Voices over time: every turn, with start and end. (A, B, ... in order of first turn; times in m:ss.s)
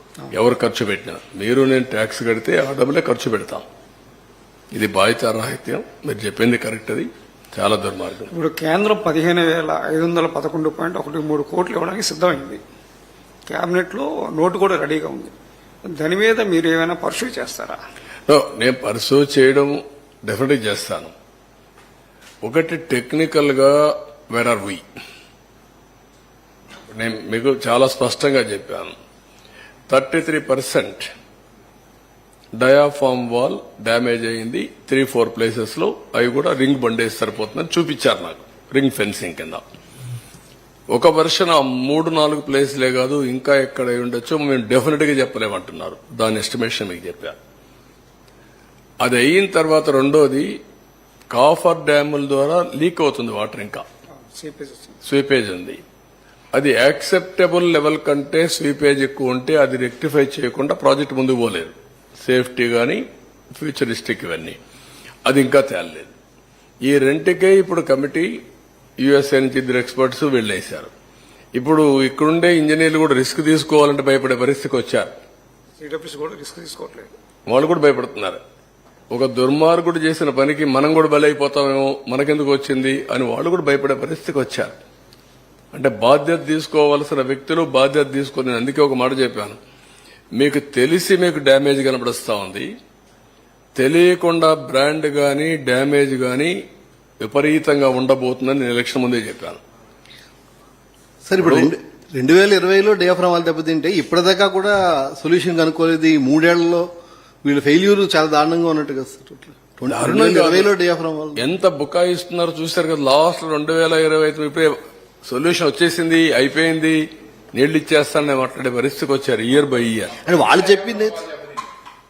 0:00.3-0:03.6 A
0:04.7-0:08.3 A
0:08.3-0:12.6 B
0:13.5-0:17.8 B
0:18.3-0:21.1 A
0:22.4-0:24.8 A
0:26.9-0:28.9 A
0:29.9-0:31.1 A
0:32.6-0:39.6 A
0:40.9-0:47.4 A
0:49.0-0:50.6 A
0:51.3-0:53.8 A
0:54.3-0:55.0 B
0:55.0-0:55.8 A
0:56.5-1:03.0 A
1:03.5-1:04.6 A
1:05.2-1:06.1 A
1:06.8-1:08.3 A
1:09.0-1:10.9 A
1:11.5-1:15.1 A
1:15.8-1:17.1 B
1:17.5-1:18.4 A
1:19.1-1:24.7 A
1:25.7-1:29.6 A
1:30.4-1:32.7 A
1:33.8-1:36.5 A
1:37.2-1:39.6 A
1:41.2-1:46.9 C
1:41.4-1:41.7 A
1:47.4-1:51.4 C
1:49.9-1:50.7 A
1:51.4-1:57.0 A
1:57.5-2:00.2 A
2:00.2-2:01.3 C